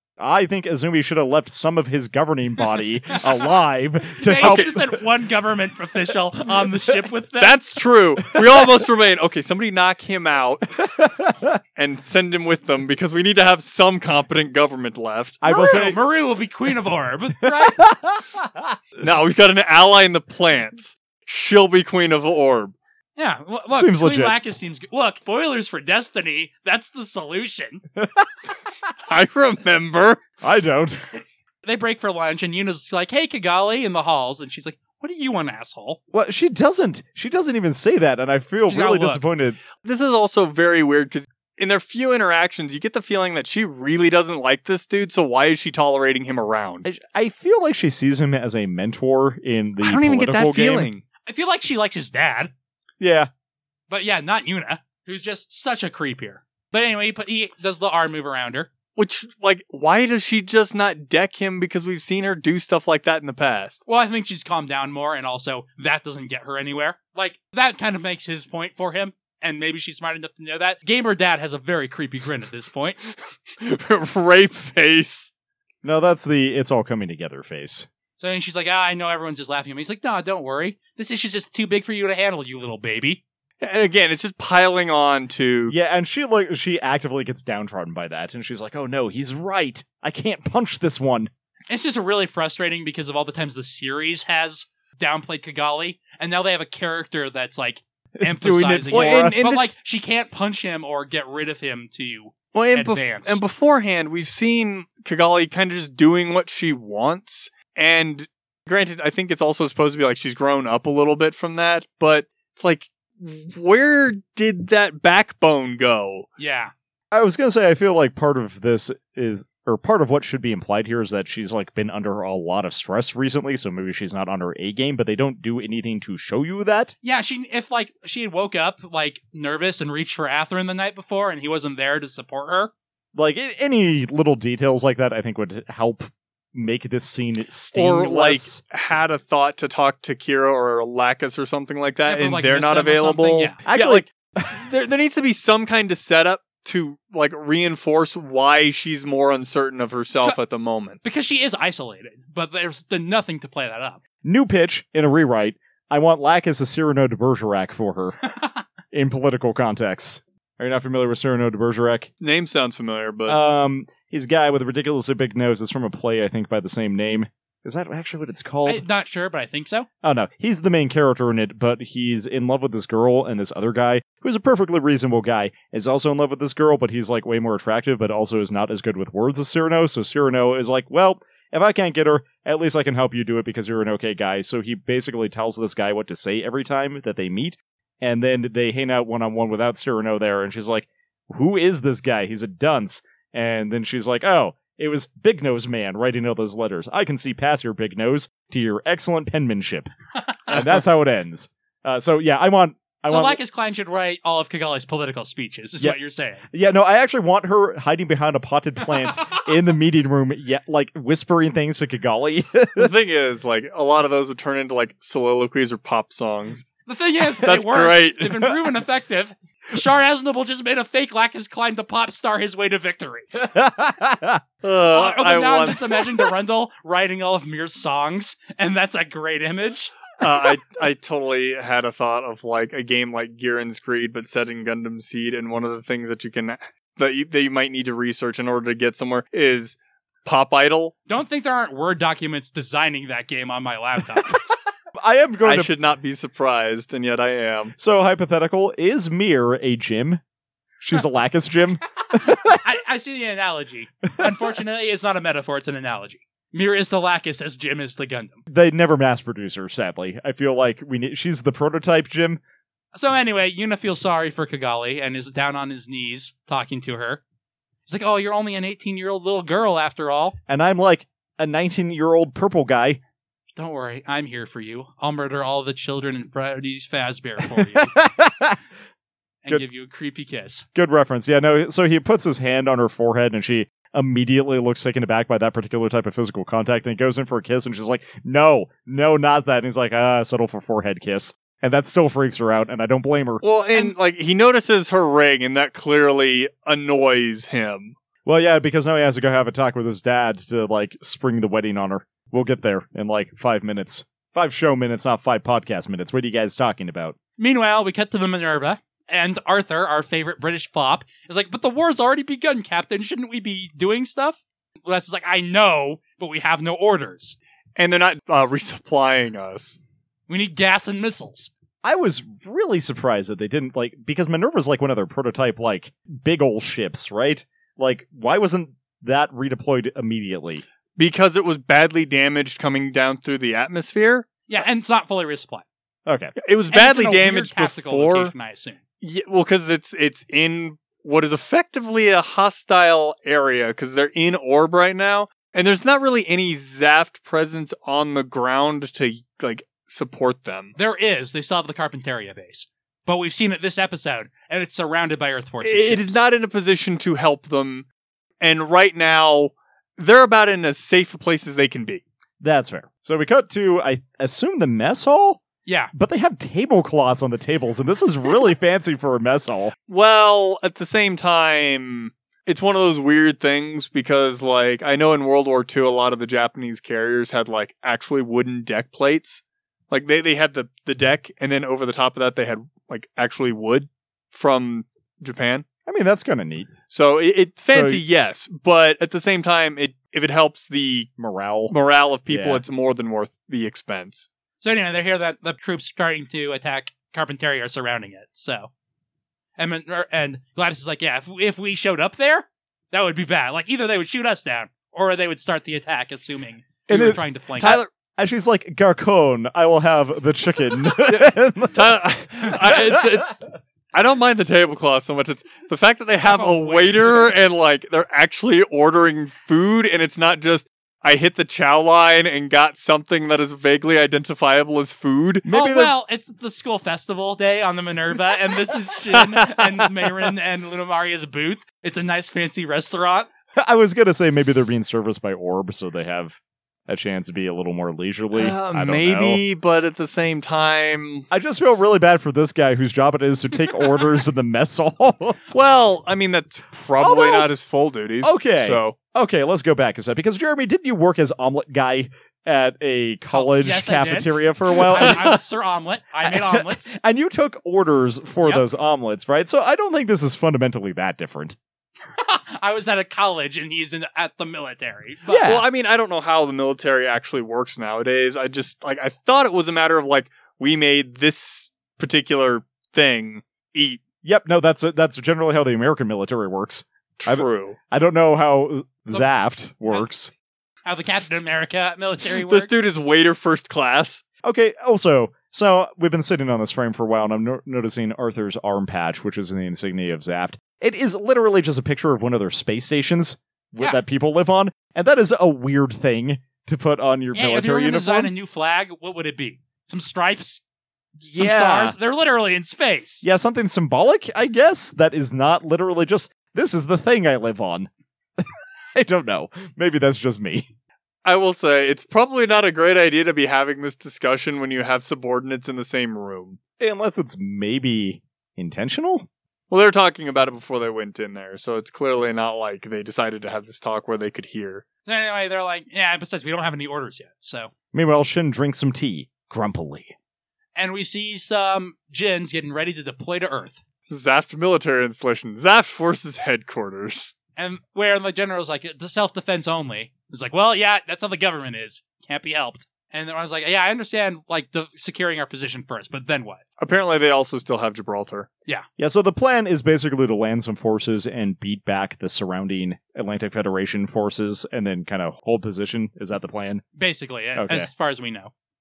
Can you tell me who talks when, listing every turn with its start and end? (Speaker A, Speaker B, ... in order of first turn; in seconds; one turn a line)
Speaker A: 0.2-5.0
Speaker B: 4.2-7.6
Speaker C: 4.4-4.7
Speaker C: 7.4-10.8
Speaker A: 10.8-11.6
Speaker C: 11.8-15.4
Speaker A: 15.4-16.0
Speaker B: 15.4-17.8
Speaker A: 17.4-18.8
Speaker C: 19.0-22.7
Speaker B: 23.2-27.8
Speaker A: 23.7-24.4
Speaker A: 28.0-28.2
Speaker C: 29.1-30.2
Speaker A: 30.4-31.0
Speaker B: 31.6-36.0
Speaker A: 36.1-39.6
Speaker B: 38.7-39.2
Speaker C: 39.8-46.8
Speaker A: 46.8-50.9
Speaker C: 49.8-51.0
Speaker B: 51.2-52.5
Speaker A: 53.0-53.3
Speaker B: 53.9-58.7
Speaker C: 59.0-63.8
Speaker B: 63.9-73.0
Speaker C: 73.6-75.3
Speaker A: 75.8-77.9
Speaker B: 78.2-83.2
Speaker C: 83.6-85.7
Speaker A: 85.7-91.3
Speaker B: 91.7-103.4
Speaker A: 98.2-99.5
Speaker C: 98.8-99.7
Speaker C: 102.5-116.3
Speaker B: 116.4-116.7
Speaker A: 117.1-126.9
Speaker B: 127.0-132.7
Speaker A: 133.1-138.6
Speaker C: 137.7-151.0
Speaker B: 142.0-143.6
Speaker A: 143.6-144.5
Speaker B: 151.0-154.0
Speaker A: 154.2-158.2
Speaker A: 158.9-162.1
Speaker C: 162.2-163.4
Speaker A: 163.3-168.8
Speaker B: 168.6-169.9
Speaker A: 170.0-199.9
Speaker A: 200.5-203.4
Speaker C: 200.5-200.8
Speaker B: 203.1-206.4
Speaker A: 206.5-212.9
Speaker C: 212.8-216.7
Speaker B: 216.8-223.3
Speaker C: 217.4-218.5
Speaker A: 223.3-224.4
Speaker C: 224.6-226.0
Speaker B: 224.9-229.9
Speaker C: 230.2-240.9
Speaker B: 241.1-244.4
Speaker A: 244.9-245.7
Speaker C: 245.4-247.7
Speaker A: 247.8-250.2
Speaker A: 250.8-252.6
Speaker B: 252.4-258.4
Speaker A: 258.5-262.4
Speaker B: 262.9-267.2
Speaker B: 267.9-270.4
Speaker A: 270.5-273.0
Speaker B: 273.6-277.9
Speaker A: 277.6-278.6
Speaker B: 279.4-280.6
Speaker A: 280.7-293.4
Speaker C: 293.4-297.9
Speaker A: 298.2-307.2
Speaker B: 307.4-317.4
Speaker C: 317.8-319.8
Speaker B: 320.3-321.5
Speaker A: 321.8-330.6
Speaker C: 331.0-334.3
Speaker B: 334.5-335.6
Speaker A: 336.1-336.3
Speaker C: 336.4-338.3
Speaker B: 336.7-338.8
Speaker C: 339.0-350.7
Speaker B: 350.8-356.2
Speaker C: 355.6-357.9
Speaker C: 358.4-362.0
Speaker A: 362.4-365.4
Speaker B: 365.6-365.9
Speaker A: 365.9-369.7
Speaker C: 369.9-385.6
Speaker A: 385.9-386.7
Speaker C: 386.9-391.1
Speaker A: 387.7-388.0
Speaker A: 391.2-391.7
Speaker C: 391.7-394.3
Speaker A: 392.3-392.6
Speaker B: 394.6-398.7
Speaker B: 399.6-407.8
Speaker A: 406.9-413.2
Speaker C: 407.6-407.9
Speaker C: 411.0-413.4
Speaker C: 413.9-425.5
Speaker B: 416.2-417.3
Speaker A: 425.4-425.9
Speaker B: 425.5-433.3
Speaker C: 429.1-429.9
Speaker A: 433.6-436.4
Speaker A: 436.9-439.4
Speaker C: 438.3-441.3
Speaker A: 441.3-445.4
Speaker C: 445.5-448.9
Speaker A: 447.0-447.5
Speaker A: 448.2-455.3
Speaker B: 453.3-457.0
Speaker C: 454.9-455.3
Speaker A: 456.2-461.6
Speaker B: 462.1-465.5
Speaker A: 465.3-465.7
Speaker C: 465.4-474.0
Speaker A: 474.2-480.3
Speaker C: 477.2-477.8
Speaker B: 480.9-482.8
Speaker C: 482.4-484.2
Speaker A: 484.4-498.3
Speaker B: 497.3-500.6
Speaker A: 501.2-502.0
Speaker B: 501.4-503.2
Speaker A: 503.2-510.7
Speaker C: 511.2-516.6
Speaker A: 516.8-519.3
Speaker C: 519.7-524.8
Speaker B: 525.0-527.7
Speaker A: 527.9-530.1
Speaker B: 530.7-533.8
Speaker C: 534.0-537.3
Speaker B: 537.6-546.6
Speaker C: 546.8-548.5
Speaker A: 549.0-556.8
Speaker B: 557.0-558.5
Speaker A: 557.5-557.9